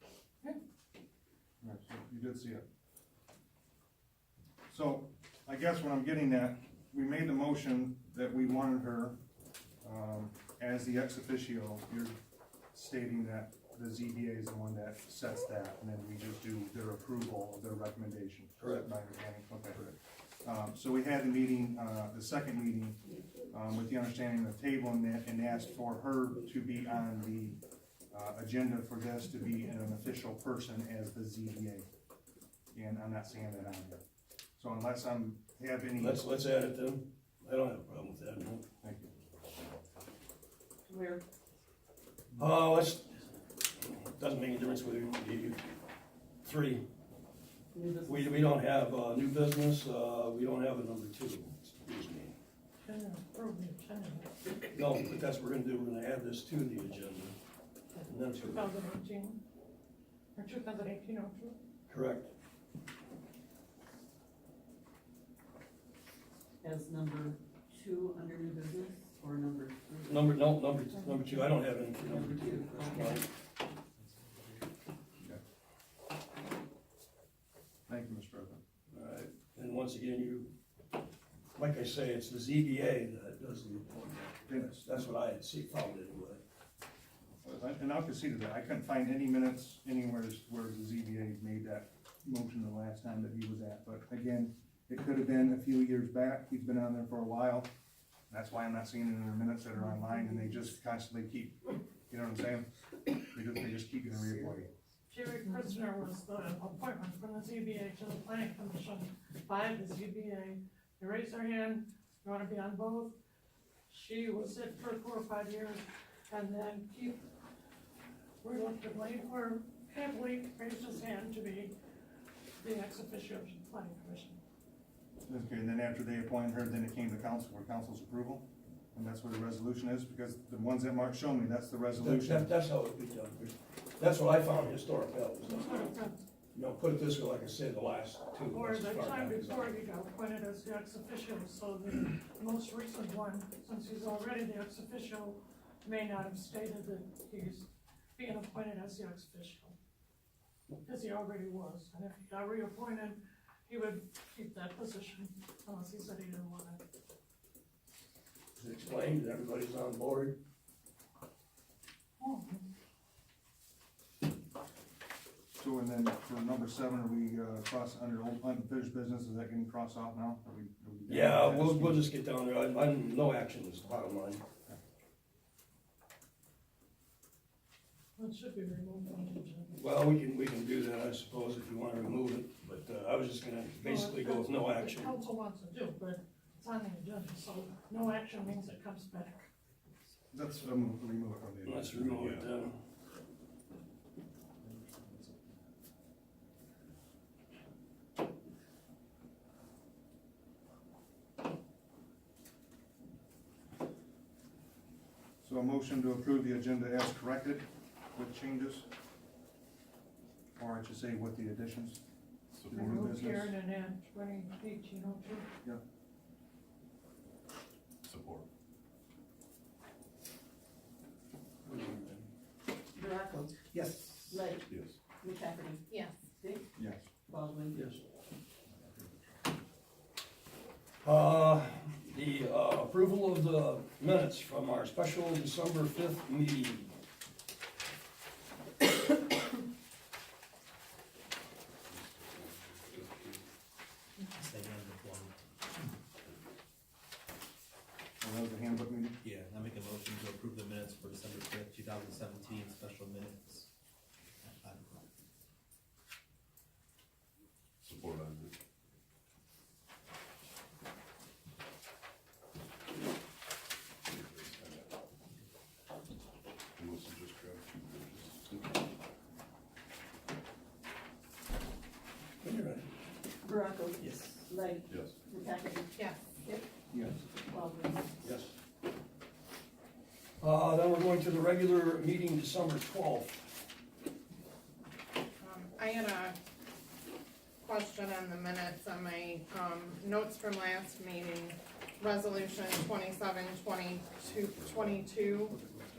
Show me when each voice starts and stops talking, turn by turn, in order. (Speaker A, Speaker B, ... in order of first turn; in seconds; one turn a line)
Speaker A: 1.6-2.6
Speaker A: 4.7-9.2
Speaker A: 9.8-12.2
Speaker A: 12.7-19.8
Speaker B: 18.6-18.9
Speaker A: 20.4-23.0
Speaker A: 23.5-27.6
Speaker A: 28.1-31.9
Speaker A: 32.7-34.0
Speaker A: 34.6-36.2
Speaker B: 36.0-38.6
Speaker A: 38.8-39.1
Speaker C: 40.9-41.2
Speaker B: 42.4-43.2
Speaker B: 43.8-45.6
Speaker B: 46.4-46.9
Speaker C: 47.7-48.5
Speaker B: 48.1-52.4
Speaker D: 52.8-54.3
Speaker B: 54.7-57.4
Speaker D: 57.9-59.4
Speaker B: 58.1-58.7
Speaker D: 60.4-61.6
Speaker B: 61.9-62.3
Speaker C: 66.6-70.4
Speaker B: 70.1-73.3
Speaker C: 71.1-73.3
Speaker A: 77.9-78.6
Speaker B: 78.9-80.5
Speaker B: 81.6-86.4
Speaker A: 84.5-84.9
Speaker A: 87.4-97.7
Speaker A: 98.3-102.7
Speaker A: 103.3-104.7
Speaker D: 105.1-113.1
Speaker D: 113.9-117.2
Speaker D: 118.4-121.7
Speaker D: 122.6-124.4
Speaker A: 125.3-132.5
Speaker B: 132.0-135.6
Speaker D: 135.4-136.2
Speaker B: 136.5-139.9
Speaker D: 138.5-149.8
Speaker D: 150.8-156.8
Speaker B: 158.6-160.4
Speaker D: 162.2-162.6
Speaker A: 165.6-172.1
Speaker B: 171.1-174.4
Speaker D: 178.2-179.8
Speaker B: 179.7-185.2
Speaker D: 183.8-189.5
Speaker A: 190.3-192.3
Speaker B: 191.6-192.8
Speaker E: 192.1-192.5
Speaker F: 194.6-195.4
Speaker A: 205.4-208.9
Speaker A: 210.6-212.0
Speaker E: 212.5-213.1
Speaker A: 212.7-213.5
Speaker D: 212.7-215.5
Speaker E: 218.1-218.5
Speaker B: 221.6-222.3
Speaker C: 222.9-223.7
Speaker F: 223.7-224.3
Speaker C: 224.3-224.7
Speaker E: 224.7-225.0
Speaker C: 225.2-225.8
Speaker C: 226.4-227.9
Speaker A: 226.8-227.1
Speaker B: 227.7-228.0
Speaker B: 231.0-236.9
Speaker E: 241.9-243.5
Speaker F: 244.4-245.4
Speaker A: 248.2-249.2
Speaker F: 249.2-253.7
Speaker F: 254.4-255.0
Speaker E: 257.8-258.6
Speaker E: 264.1-264.9
Speaker E: 266.8-268.7
Speaker B: 272.4-272.9
Speaker C: 273.4-275.9
Speaker B: 274.0-274.3
Speaker E: 274.9-275.2
Speaker C: 276.4-276.7
Speaker C: 277.5-278.4
Speaker B: 278.2-278.5
Speaker B: 280.4-283.5
Speaker G: 285.4-286.4
Speaker G: 287.6-295.6
Speaker E: 294.2-295.2